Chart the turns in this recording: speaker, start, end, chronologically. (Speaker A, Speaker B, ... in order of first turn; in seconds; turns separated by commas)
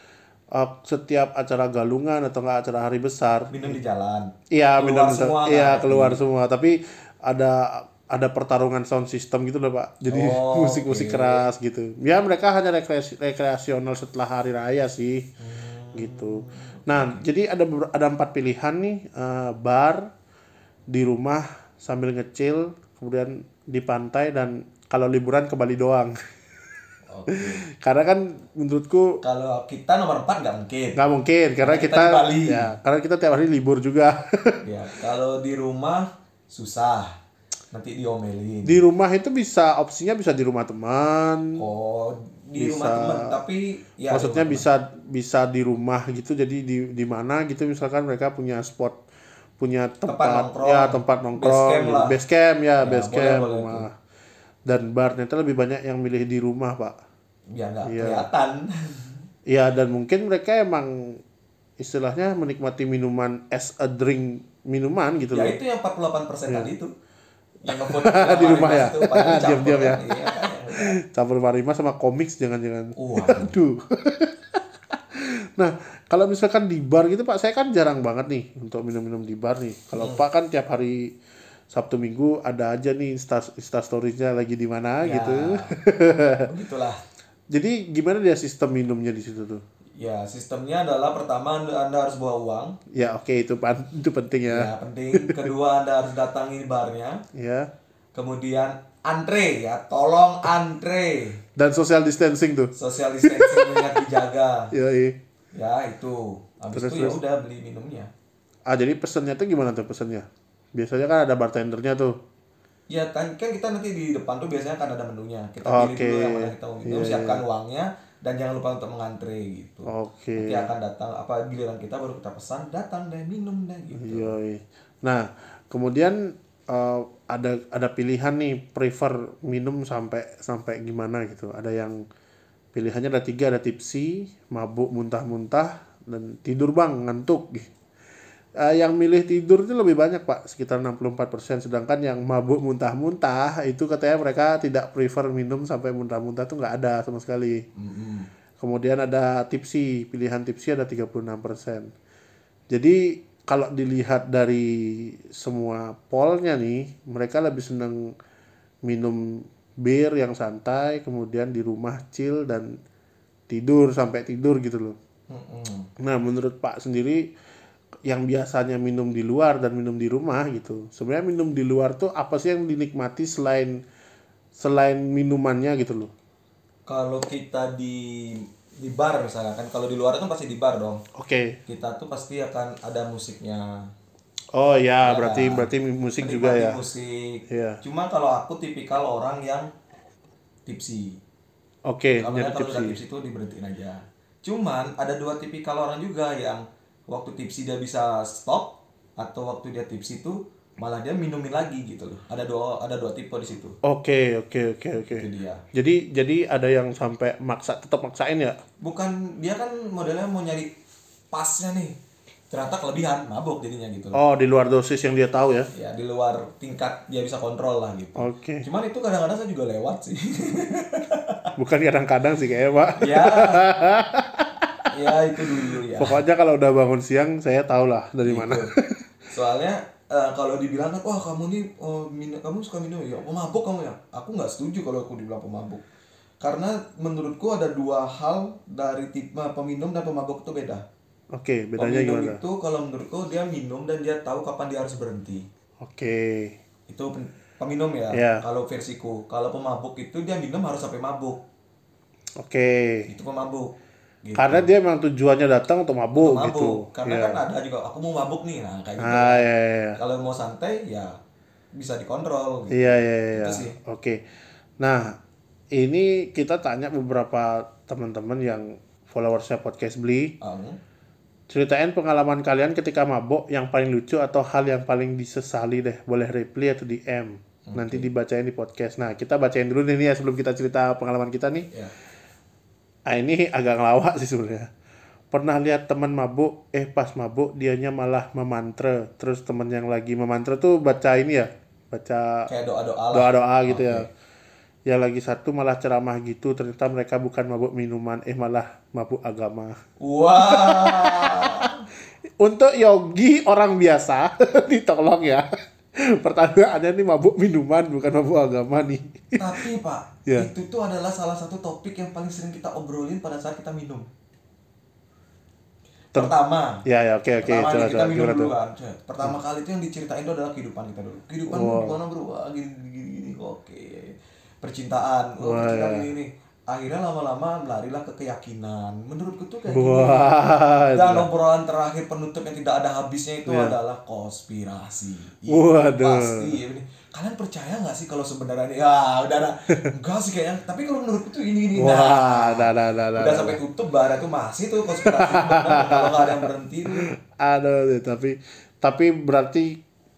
Speaker A: 0.5-3.8, Speaker B: 3.5-6.2, Speaker A: 4.5-15.3, Speaker B: 10.1-11.5, Speaker B: 15.4-17.2, Speaker A: 15.9-20.1, Speaker A: 20.9-26.1, Speaker B: 27.1-27.6, Speaker A: 27.3-29.2, Speaker B: 29.2-31.0, Speaker A: 30.9-34.6, Speaker B: 31.6-32.6, Speaker B: 34.6-37.1, Speaker B: 37.7-38.8, Speaker A: 38.6-41.6, Speaker B: 41.6-44.6, Speaker A: 42.6-43.4, Speaker A: 44.1-49.0, Speaker A: 49.6-53.9, Speaker B: 50.0-52.2, Speaker B: 52.8-53.8, Speaker A: 54.6-57.0, Speaker B: 57.5-59.2, Speaker A: 57.8-58.2, Speaker A: 59.5-61.2, Speaker A: 61.8-65.5, Speaker B: 65.3-66.9, Speaker B: 67.6-70.9, Speaker A: 67.7-81.1, Speaker B: 73.0-73.5, Speaker B: 80.0-80.2, Speaker A: 81.7-86.5, Speaker B: 85.0-85.8, Speaker B: 86.5-87.0, Speaker A: 87.5-89.6, Speaker B: 90.0-92.8, Speaker A: 92.9-95.5, Speaker B: 94.5-97.2, Speaker A: 97.3-97.7, Speaker B: 98.1-101.4, Speaker A: 101.5-104.0, Speaker B: 102.7-104.7, Speaker A: 104.7-105.2, Speaker B: 105.5-108.1, Speaker A: 106.7-107.2, Speaker A: 108.7-112.2, Speaker B: 112.9-124.3, Speaker A: 115.6-117.4, Speaker A: 119.8-120.7, Speaker A: 123.9-132.0, Speaker A: 132.7-137.7, Speaker A: 138.6-147.6, Speaker B: 147.8-148.3, Speaker A: 148.6-151.9, Speaker A: 152.7-158.1, Speaker A: 158.8-162.8, Speaker A: 163.5-164.9, Speaker B: 165.3-165.9, Speaker A: 166.0-167.3, Speaker A: 168.1-173.8, Speaker A: 174.6-176.1, Speaker B: 176.9-181.0, Speaker A: 181.2-181.6, Speaker B: 181.7-183.9, Speaker A: 184.5-186.8, Speaker B: 185.0-185.7, Speaker B: 186.2-189.7, Speaker A: 187.5-187.8, Speaker B: 190.7-191.2, Speaker A: 191.8-193.0, Speaker B: 192.2-203.8, Speaker A: 203.8-208.6, Speaker B: 205.1-205.6, Speaker B: 208.8-210.7, Speaker B: 211.3-211.9, Speaker B: 212.5-214.2, Speaker A: 214.1-215.7, Speaker B: 215.7-221.5, Speaker A: 218.2-218.6, Speaker A: 221.6-229.0, Speaker B: 223.0-223.6, Speaker B: 224.9-226.2, Speaker B: 228.2-228.7, Speaker B: 229.3-235.8, Speaker B: 236.4-240.8, Speaker A: 241.3-242.4, Speaker B: 241.8-245.4, Speaker A: 245.8-246.6, Speaker B: 246.9-251.4, Speaker A: 248.1-248.4, Speaker A: 252.4-253.1, Speaker B: 253.1-253.7, Speaker B: 254.2-254.7, Speaker A: 254.4-257.4, Speaker B: 256.1-261.1, Speaker A: 259.0-260.0, Speaker B: 261.7-263.8, Speaker A: 262.7-264.2, Speaker A: 264.8-265.1, Speaker A: 265.7-270.3, Speaker B: 270.4-270.8, Speaker A: 271.5-281.7, Speaker B: 277.7-278.1, Speaker A: 283.1-284.7, Speaker A: 285.3-292.5, Speaker B: 292.5-294.1, Speaker A: 293.1-294.1, Speaker A: 294.9-299.8, Speaker B: 300.0-301.8, Speaker A: 300.4-301.7, Speaker A: 302.4-305.4, Speaker A: 305.9-309.6, Speaker B: 309.4-314.1, Speaker B: 316.1-316.8, Speaker A: 316.8-318.5, Speaker B: 317.4-330.3, Speaker A: 321.5-321.9, Speaker A: 325.4-326.1, Speaker A: 329.7-331.3, Speaker B: 330.9-347.1, Speaker A: 333.5-333.8, Speaker A: 335.5-336.6, Speaker A: 341.8-343.6, Speaker A: 345.0-349.8